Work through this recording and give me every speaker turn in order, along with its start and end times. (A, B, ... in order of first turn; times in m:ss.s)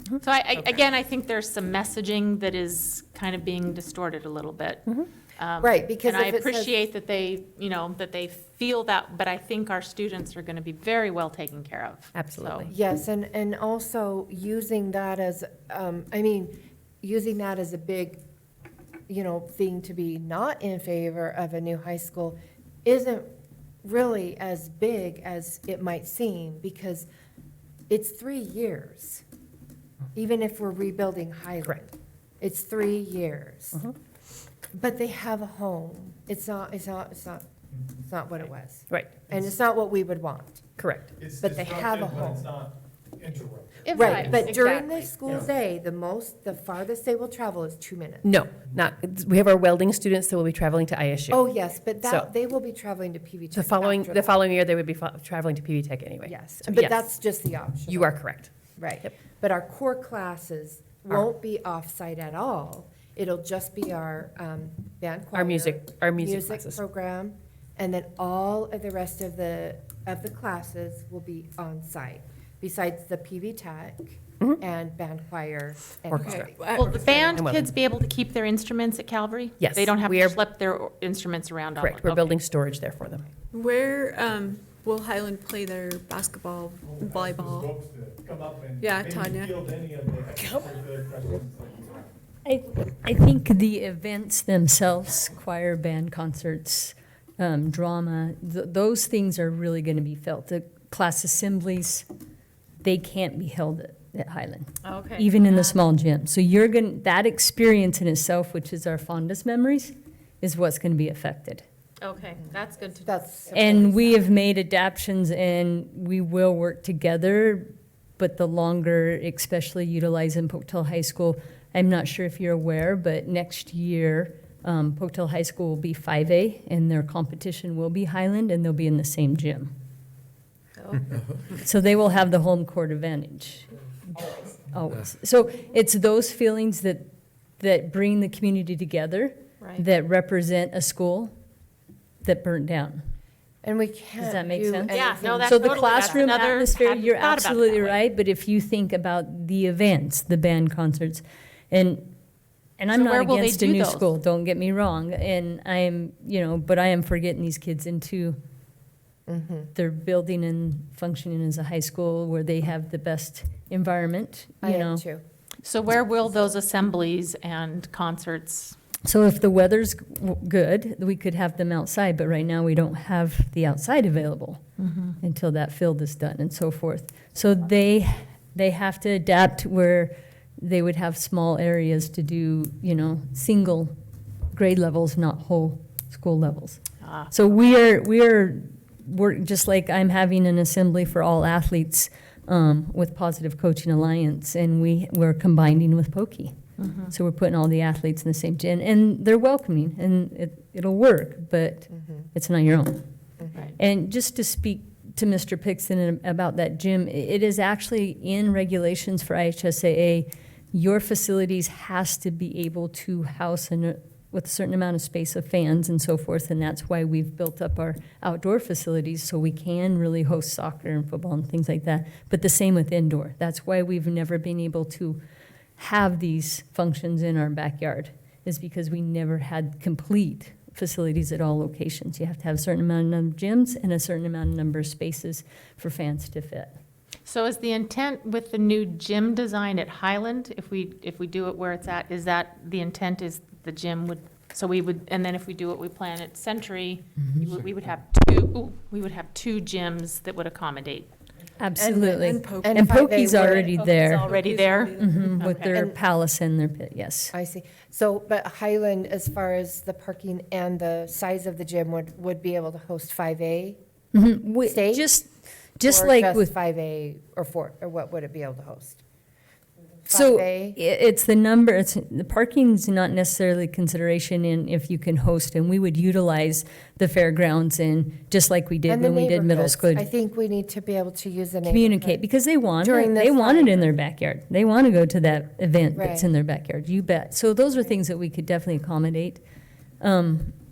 0:00.2-0:04.8 A
0:05.4-0:12.7 A
0:05.6-0:06.7 B
0:12.1-0:12.7 C
0:12.7-0:18.2 B
0:19.1-0:23.3 B
0:23.8-0:27.1 B
0:27.9-0:29.2 B
0:30.2-0:33.8 B
0:34.7-0:37.4 B
0:38.1-0:40.6 B
0:38.9-0:39.2 C
0:40.8-0:41.1 C
0:41.1-0:44.7 D
0:41.4-0:42.5 B
0:43.9-0:48.3 B
0:44.0-0:45.1 A
0:48.2-0:51.4 C
0:51.3-0:54.3 B
0:53.6-0:57.0 C
0:56.2-0:58.1 B
0:57.9-0:58.5 C
0:58.8-1:16.6 B
1:05.3-1:06.8 C
1:16.1-1:16.5 C
1:16.2-1:17.3 E
1:16.7-1:22.4 A
1:17.3-1:17.7 C
1:19.6-1:20.4 C
1:21.8-1:23.2 C
1:23.5-1:27.8 E
1:26.8-1:32.1 D
1:28.8-1:29.7 E
1:30.4-1:30.6 E
1:32.4-1:42.1 F
1:42.8-1:51.6 F
1:44.8-1:45.8 A
1:52.0-1:53.2 A
1:53.0-1:54.2 B
1:53.5-2:09.7 F
2:11.5-2:17.1 F
2:17.6-2:21.3 F
2:22.2-2:23.0 F
2:23.6-2:26.3 B
2:24.2-2:32.1 F
2:24.9-2:28.0 A
2:32.8-2:38.4 F
2:32.9-2:34.1 A
2:39.3-2:39.7 B
2:39.8-2:45.0 F
2:44.6-2:45.2 B
2:45.6-2:48.8 A
2:49.0-2:54.6 F
2:54.8-2:55.2 A
2:55.2-3:03.9 F
3:04.5-3:16.5 F
3:07.0-3:07.4 A
3:16.8-3:17.1 A
3:17.1-3:23.0 F
3:21.9-3:22.3 B
3:23.8-3:45.2 F
3:45.8-3:56.8 F
3:57.2-4:11.1 A
4:11.6-4:14.3 F
4:11.8-4:13.7 B
4:12.2-4:15.5 E
4:14.0-4:15.8 A
4:14.9-4:17.3 F
4:15.7-4:16.0 B
4:17.3-4:23.8 B
4:24.1-4:26.6 F
4:24.6-4:25.1 B
4:25.8-4:29.0 B
4:30.1-4:30.8 B
4:30.1-4:40.1 F
4:38.9-4:42.2 B
4:41.6-4:49.4 F
4:42.8-4:43.9 B
4:45.9-4:46.3 B
4:50.0-4:50.5 F